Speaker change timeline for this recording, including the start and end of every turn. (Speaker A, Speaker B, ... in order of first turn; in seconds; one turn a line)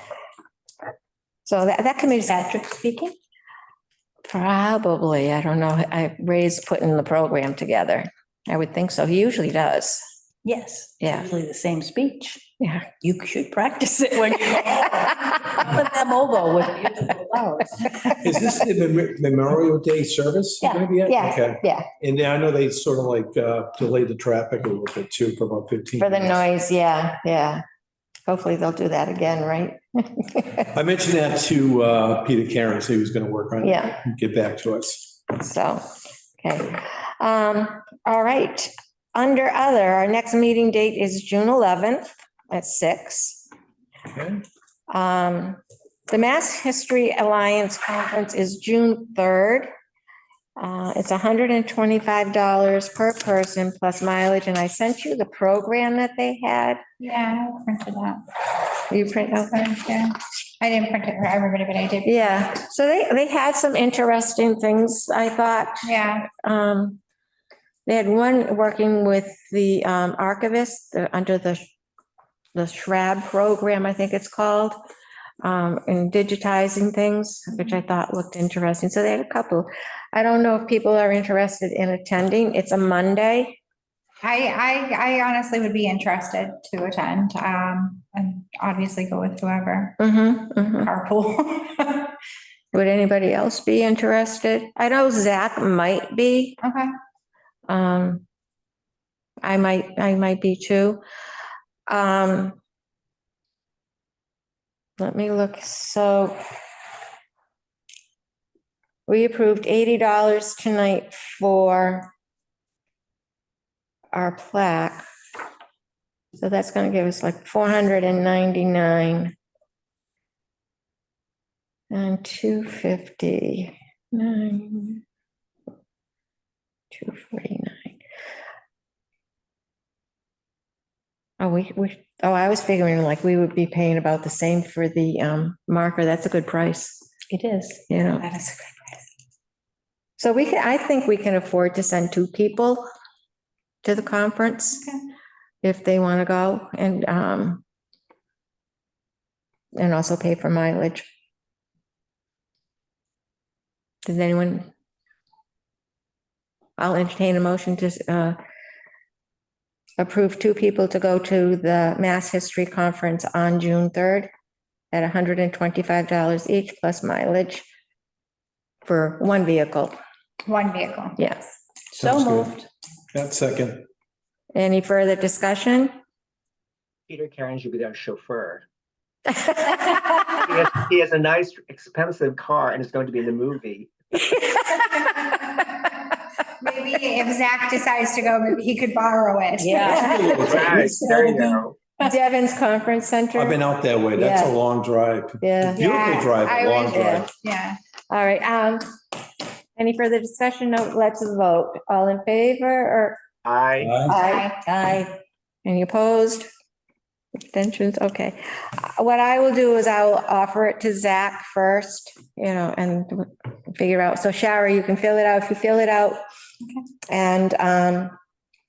Speaker A: 1.5-3.1
Speaker B: 2.4-2.8
Speaker A: 4.3-10.1
Speaker B: 10.4-12.5
Speaker A: 11.0-11.3
Speaker A: 12.6-12.9
Speaker B: 13.0-18.1
Speaker C: 18.1-26.4
Speaker B: 20.6-20.9
Speaker A: 21.1-21.9
Speaker A: 26.0-27.6
Speaker A: 28.3-30.7
Speaker C: 30.7-35.1
Speaker A: 33.6-34.0
Speaker A: 35.3-35.9
Speaker A: 36.4-43.5
Speaker C: 44.1-44.4
Speaker A: 44.9-49.7
Speaker A: 50.6-56.8
Speaker D: 57.0-58.2
Speaker A: 58.9-59.7
Speaker D: 59.4-62.5
Speaker A: 62.0-67.0
Speaker D: 65.8-66.3
Speaker A: 67.9-71.7
Speaker A: 72.5-74.8
Speaker A: 75.4-83.6
Speaker D: 84.2-90.0
Speaker A: 90.0-90.9
Speaker D: 90.8-92.1
Speaker A: 92.7-96.6
Speaker D: 96.6-96.9
Speaker A: 97.7-98.2
Speaker A: 99.4-101.0
Speaker A: 101.9-102.6
Speaker A: 105.0-106.4
Speaker A: 109.1-112.1
Speaker A: 114.1-115.0
Speaker A: 116.4-119.3
Speaker A: 121.9-125.0
Speaker A: 126.9-128.0
Speaker A: 131.4-137.1
Speaker B: 137.3-137.8
Speaker A: 137.9-138.3
Speaker D: 138.2-138.7
Speaker A: 140.2-142.9
Speaker A: 143.8-144.9
Speaker A: 145.6-147.6
Speaker A: 149.8-151.1
Speaker A: 154.0-154.7
Speaker A: 156.8-158.4
Speaker A: 160.0-164.3
Speaker A: 164.9-167.7
Speaker A: 168.8-169.9
Speaker D: 170.5-171.2
Speaker A: 171.2-171.5
Speaker C: 171.9-172.5
Speaker B: 172.0-172.7
Speaker C: 173.1-173.9
Speaker A: 174.6-176.0
Speaker E: 177.1-178.7
Speaker A: 179.3-180.2
Speaker E: 180.4-183.9
Speaker A: 184.3-185.1
Speaker D: 185.1-185.5
Speaker D: 186.6-189.9
Speaker B: 189.6-191.6
Speaker C: 189.8-190.9
Speaker A: 189.8-190.8
Speaker E: 190.4-191.8
Speaker A: 192.0-193.6
Speaker C: 193.3-197.3
Speaker A: 194.2-194.5
Speaker A: 195.4-197.3
Speaker D: 195.8-196.3
Speaker D: 197.4-197.8
Speaker A: 198.1-198.9
Speaker A: 199.8-203.2
Speaker E: 203.4-204.0
Speaker C: 203.8-204.2
Speaker A: 204.1-206.5
Speaker D: 204.1-204.6
Speaker A: 207.4-216.2
Speaker A: 217.1-218.2